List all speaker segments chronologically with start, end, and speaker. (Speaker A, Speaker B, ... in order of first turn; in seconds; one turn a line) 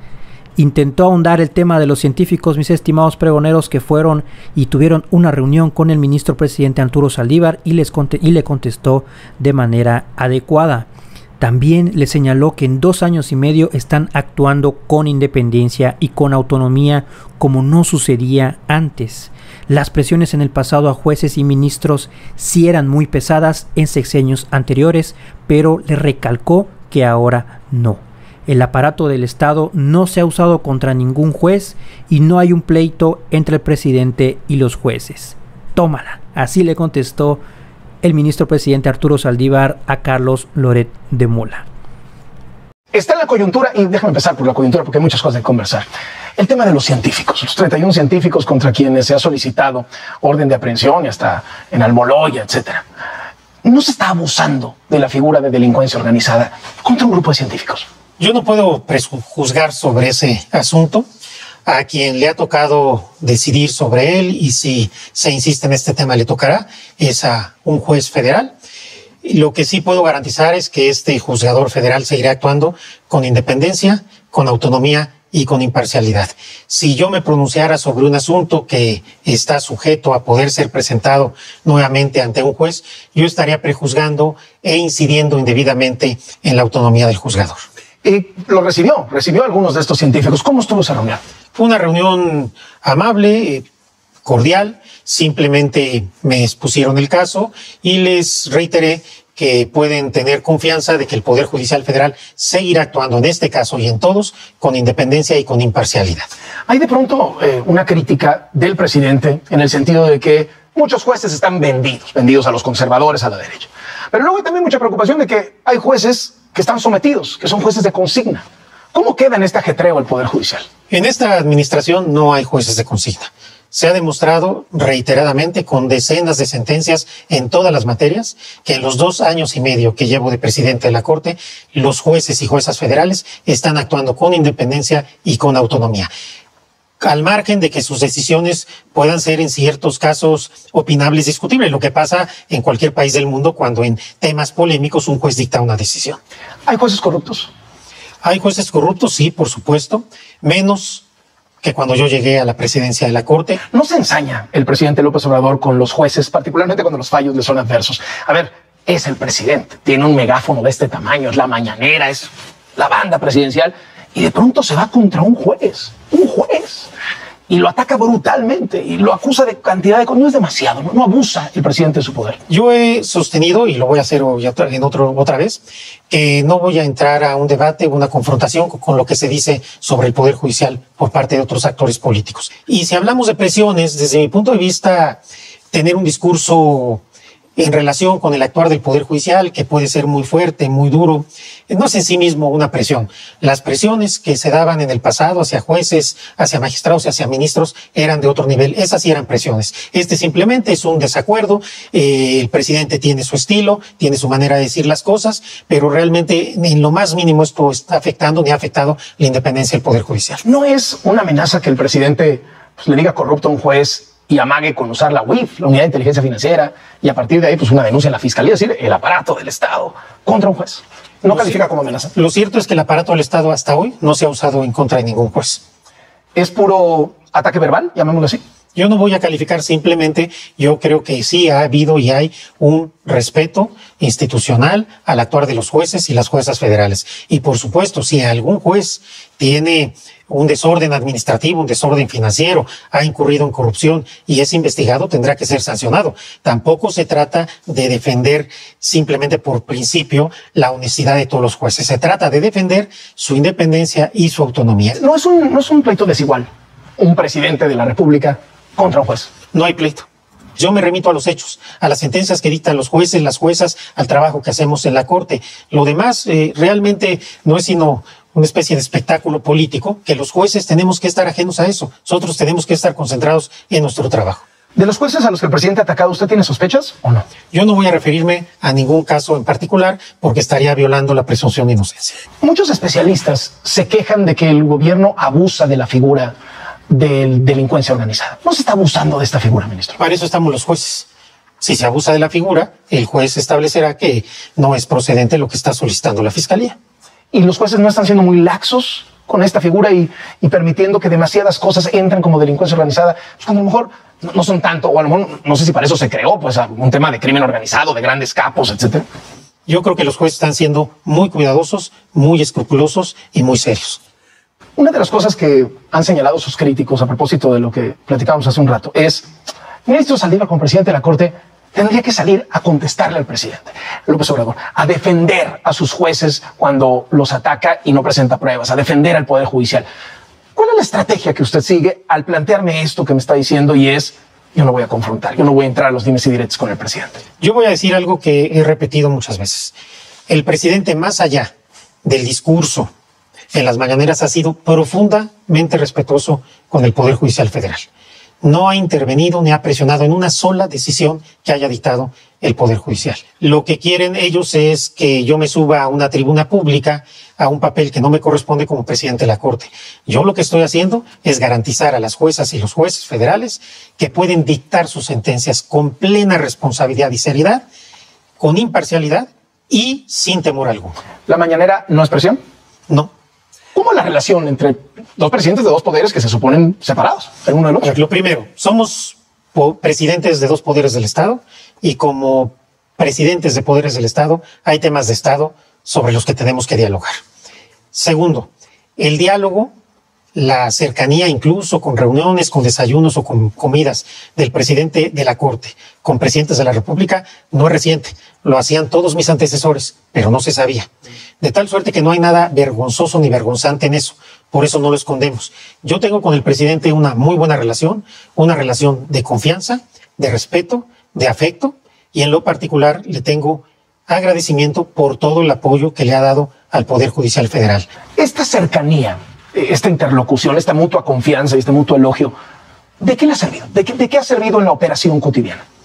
Speaker A: 0.6-10.9
Speaker A: 11.4-37.4
Speaker A: 38.0-41.6
Speaker B: 42.9-52.8
Speaker B: 53.6-57.9
Speaker C: 58.2-61.0
Speaker C: 61.6-68.5
Speaker C: 69.2-87.6
Speaker B: 88.0-91.2
Speaker C: 91.5-93.6
Speaker C: 94.2-106.3
Speaker B: 106.7-120.6
Speaker C: 120.9-136.1
Speaker C: 137.0-146.2
Speaker B: 146.7-147.5
Speaker C: 148.2-151.0
Speaker C: 151.6-153.6
Speaker B: 153.7-166.9
Speaker B: 167.5-172.4
Speaker C: 172.5-185.2
Speaker C: 185.7-187.0
Speaker C: 187.6-210.4
Speaker B: 210.4-222.1
Speaker C: 221.3-221.6
Speaker C: 222.1-225.6
Speaker B: 226.3-228.4
Speaker C: 228.7-255.0
Speaker B: 255.0-256.5
Speaker B: 257.0-259.3
Speaker C: 259.5-260.1
Speaker C: 260.6-274.4
Speaker B: 274.8-277.2
Speaker C: 277.5-282.2
Speaker B: 282.4-286.3
Speaker B: 286.9-290.0
Speaker C: 290.0-291.1
Speaker C: 291.6-296.8
Speaker B: 297.3-309.0
Speaker C: 309.7-314.0
Speaker B: 314.8-319.3
Speaker B: 319.9-329.8
Speaker B: 330.6-337.2
Speaker C: 337.4-339.7
Speaker C: 340.3-341.5
Speaker C: 342.0-342.9
Speaker C: 343.5-347.9
Speaker C: 348.4-367.6
Speaker C: 368.4-370.9
Speaker B: 371.3-372.4
Speaker B: 373.7-377.9
Speaker C: 377.8-387.2
Speaker C: 387.9-389.7
Speaker C: 390.3-400.9
Speaker C: 401.4-417.9
Speaker B: 418.2-422.3
Speaker B: 423.0-425.6